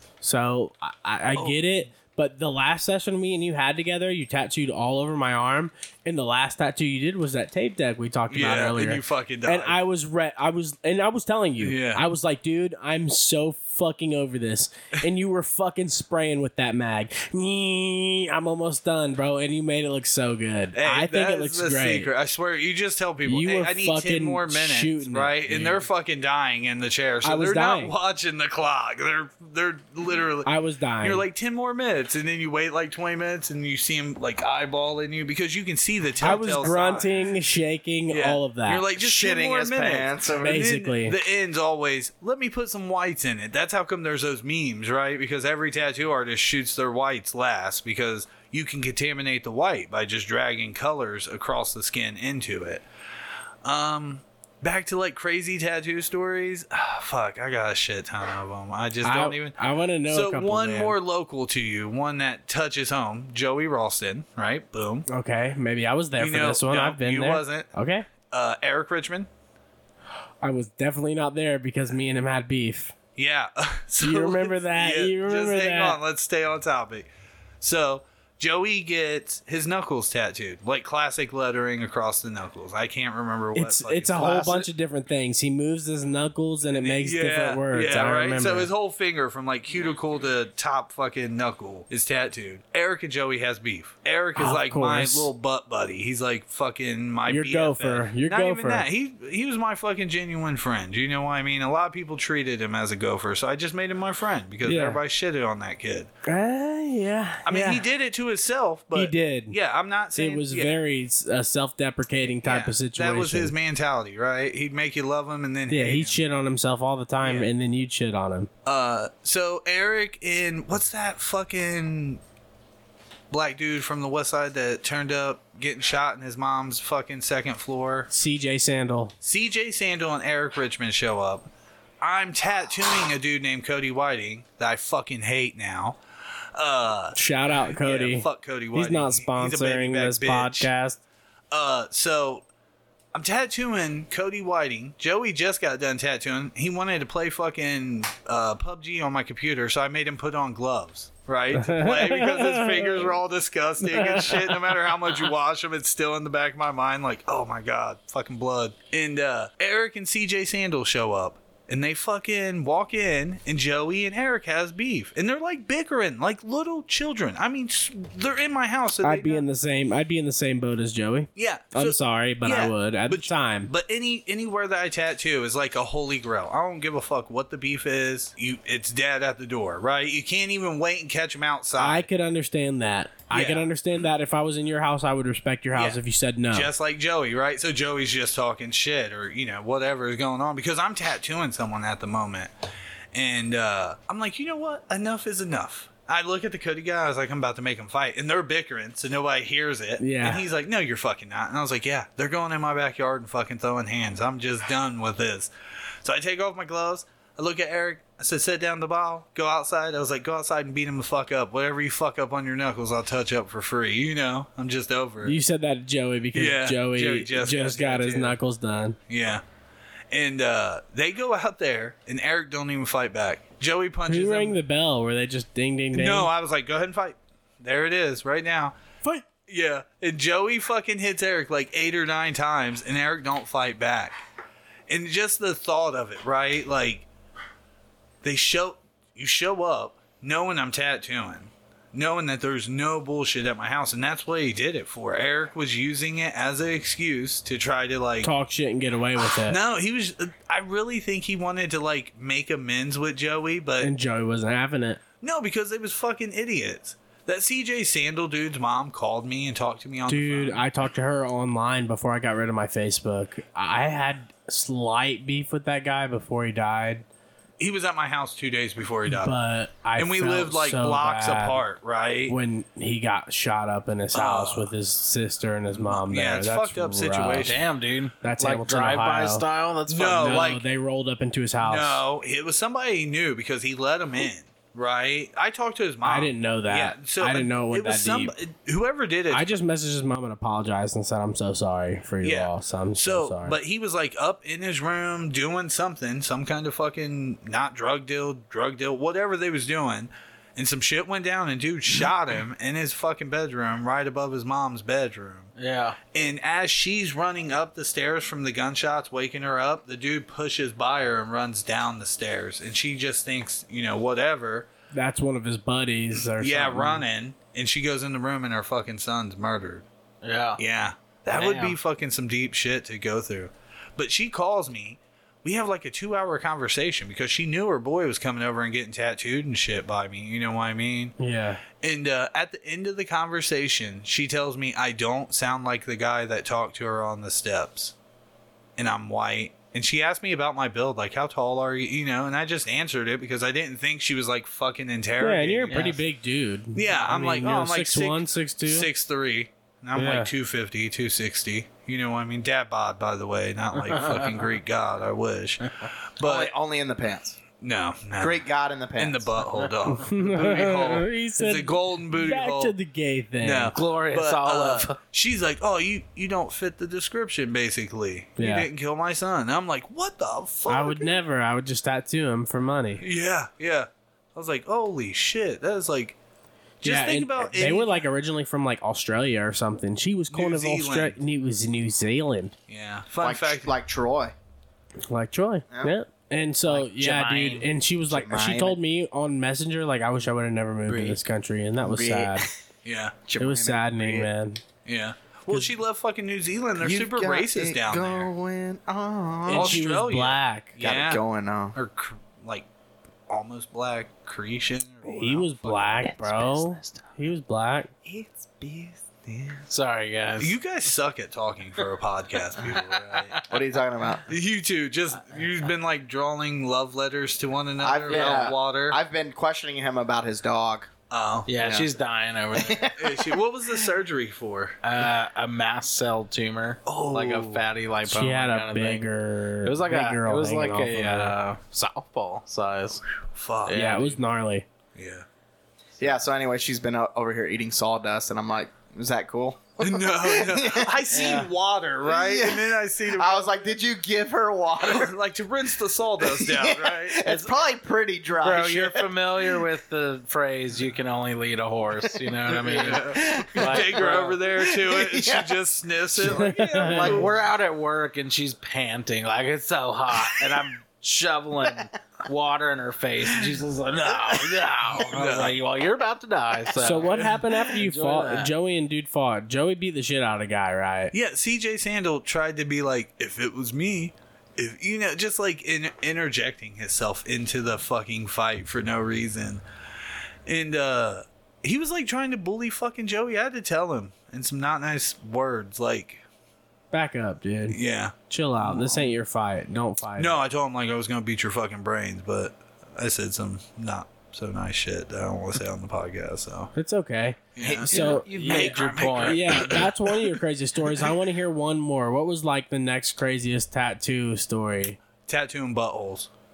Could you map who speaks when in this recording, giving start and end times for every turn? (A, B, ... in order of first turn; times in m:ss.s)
0:00.2-0:22.1 A
0:01.3-0:01.6 B
0:08.3-0:09.8 B
0:11.6-0:12.0 B
0:20.7-0:30.5 B
0:23.2-0:25.8 A
0:27.2-0:27.9 A
0:30.4-0:31.2 A
0:31.0-0:37.1 B
0:36.2-0:38.8 A
0:38.1-0:52.8 B
0:38.9-0:40.6 C
0:40.4-0:41.2 A
0:53.6-1:05.0 B
0:59.0-1:01.0 A
1:05.1-1:08.1 A
1:06.2-1:07.7 B
1:08.3-1:09.3 B
1:10.4-1:12.9 A
1:13.2-1:17.1 B
1:14.0-1:16.0 A
1:17.6-1:24.5 B
1:23.5-1:28.7 A
1:24.2-1:24.6 C
1:26.7-1:46.1 B
1:34.3-1:35.3 A
1:37.2-1:38.9 A
1:44.6-1:45.0 A
1:46.2-1:47.8 A
1:47.4-1:50.8 B
1:48.9-1:49.6 A
1:50.1-1:53.5 A
1:52.4-1:56.2 B
1:55.7-1:58.5 A
1:57.2-1:57.5 B
1:58.6-2:02.2 B
2:03.3-2:08.1 B
2:08.1-2:09.1 A
2:09.2-2:11.5 B
2:12.0-2:16.0 B
2:16.5-2:17.2 B
2:17.1-2:21.0 A
2:17.8-2:20.7 B
2:21.5-2:22.4 B
2:23.1-2:49.4 B
2:31.6-2:33.1 A
2:33.8-2:34.6 A
2:49.0-2:53.7 A
2:51.4-3:02.0 B
3:01.8-3:06.7 A
3:03.3-3:03.7 B
3:05.7-3:06.0 B
3:06.5-3:12.5 B
3:13.1-3:25.5 B
3:20.0-3:20.4 A
3:26.0-3:35.4 B
3:35.2-3:39.0 A
3:36.3-3:38.4 B
3:39.1-3:39.4 B
3:40.1-3:44.6 B
3:44.0-3:46.3 A
3:45.9-3:48.8 B
3:49.3-3:54.2 B
3:54.9-3:57.0 B
3:58.2-4:08.3 B
4:08.2-4:09.6 A
4:09.4-4:13.9 B
4:13.8-4:15.0 A
4:15.2-4:20.6 B
4:20.1-4:27.0 A
4:27.6-4:29.4 B
4:29.1-4:31.6 A
4:30.0-4:32.4 B
4:32.3-4:37.6 A
4:34.1-4:34.7 B
4:35.7-4:37.6 B
4:37.4-4:40.6 D
4:38.2-4:39.4 A
4:39.9-4:40.6 B
4:40.2-4:42.0 A
4:41.6-4:49.5 B
4:46.0-4:48.3 A
4:49.3-4:53.6 A
4:52.2-5:05.5 B
5:05.6-5:06.0 D
5:06.1-5:14.7 B
5:14.9-5:17.0 A
5:16.2-5:19.8 B
5:20.2-5:20.6 D
5:20.6-5:31.2 B
5:21.3-5:21.8 D
5:31.2-5:31.6 A
5:31.8-5:37.9 B
5:38.8-5:46.0 B
5:45.2-5:48.9 A
5:45.7-5:46.0 D
5:46.7-5:56.5 B
5:50.0-5:50.3 A
5:53.8-5:54.5 D
5:56.2-5:57.4 C
5:57.6-5:58.4 B
5:58.2-5:59.3 C
5:59.0-6:02.7 B
5:59.8-6:03.7 A
6:03.4-6:11.2 B
6:03.7-6:05.0 D
6:08.4-6:08.7 A
6:10.7-6:13.0 A
6:13.0-6:16.2 B
6:16.8-6:18.0 B
6:16.8-6:22.5 A
6:20.3-6:21.2 B
6:22.7-6:23.7 B
6:23.2-6:24.3 C
6:25.1-6:32.4 A
6:26.7-6:27.7 D
6:28.1-6:28.8 C
6:30.9-6:31.2 D
6:31.8-6:32.5 C
6:32.8-6:33.2 B
6:33.2-6:34.3 C
6:33.4-6:34.6 A
6:34.8-6:38.3 B
6:36.8-6:39.8 C
6:39.5-6:40.8 A
6:39.5-6:41.2 B
6:40.8-6:41.8 C
6:41.7-6:42.7 B
6:43.3-6:46.1 B
6:45.0-6:47.9 A
6:46.0-6:47.0 D
6:48.0-6:49.6 C
6:49.7-6:50.5 D
6:50.4-6:53.4 B
6:52.6-6:53.4 D
6:53.5-6:54.2 C
6:54.3-6:59.0 B
6:57.8-7:00.9 C
6:58.1-6:58.5 D
7:01.1-7:01.5 B
7:01.4-7:02.9 D
7:01.6-7:01.9 C
7:02.5-7:03.4 C
7:03.0-7:04.8 B
7:04.8-7:09.1 D
7:06.8-7:07.6 B
7:08.0-7:11.4 A
7:09.6-7:13.0 D
7:13.3-7:14.0 B
7:13.6-7:14.2 D
7:13.7-7:14.6 A
7:14.9-7:15.2 B
7:16.0-7:21.5 C
7:19.8-7:23.6 B
7:21.1-7:21.5 D
7:22.0-7:25.1 C
7:24.8-7:27.4 B
7:26.2-7:29.6 C
7:28.4-7:34.4 D
7:32.6-7:37.3 B
7:32.8-7:34.0 C
7:34.6-7:35.6 C
7:36.2-7:37.2 A
7:36.8-7:48.5 D
7:36.9-7:37.2 C
7:44.9-7:45.6 B
7:46.8-7:51.1 A
7:51.1-7:59.6 B
8:00.4-8:06.2 B
8:06.9-8:10.3 A
8:07.7-8:09.1 B
8:10.2-8:16.7 B
8:16.7-8:25.0 A
8:17.6-8:20.3 B
8:17.6-8:18.2 C
8:17.9-8:19.7 D
8:25.3-8:26.3 B